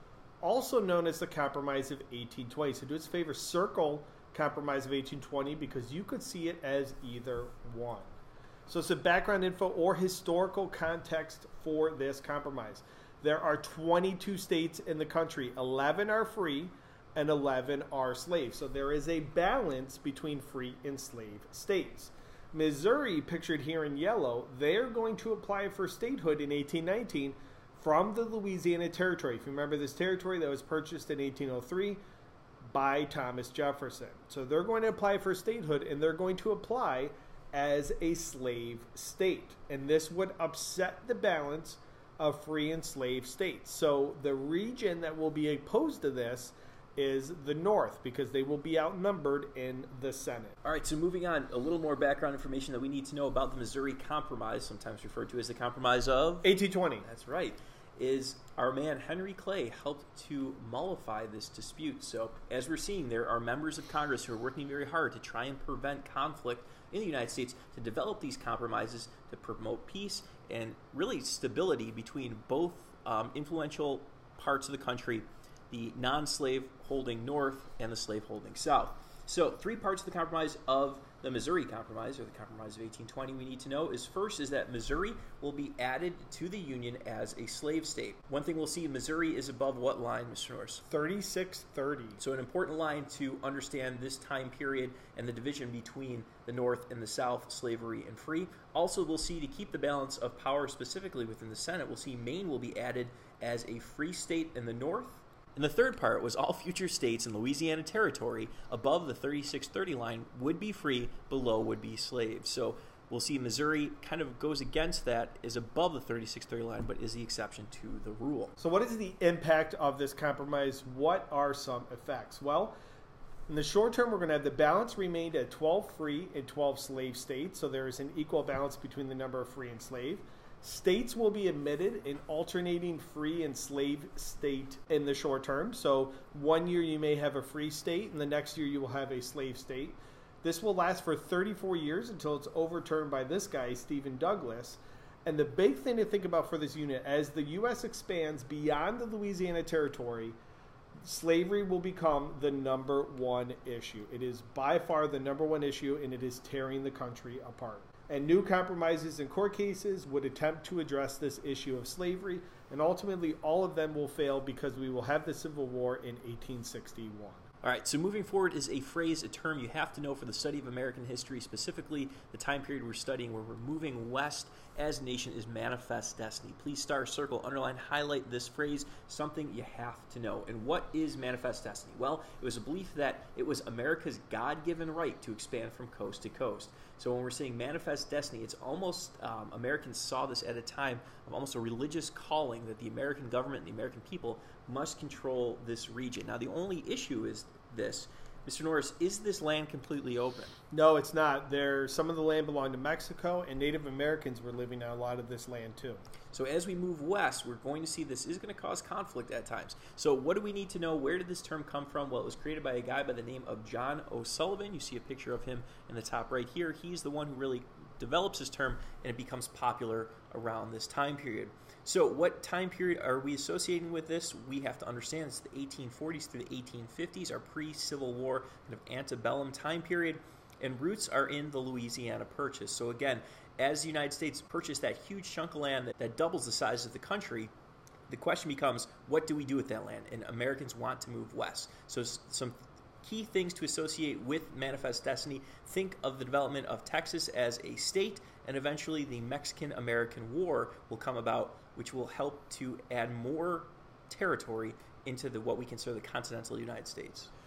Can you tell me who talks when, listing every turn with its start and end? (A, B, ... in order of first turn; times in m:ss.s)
0:00.4-0:08.1 A
0:08.7-0:32.0 A
0:32.6-0:50.6 A
0:50.6-0:56.5 B
0:56.4-0:57.0 A
0:57.0-1:30.8 B
1:30.8-1:32.2 A
1:32.2-1:58.5 B
1:58.6-2:02.7 A
2:03.5-2:30.4 A
2:31.0-2:47.4 A
2:47.6-3:20.5 B
3:20.7-3:26.0 A
3:26.3-3:57.5 B
3:58.1-4:17.3 B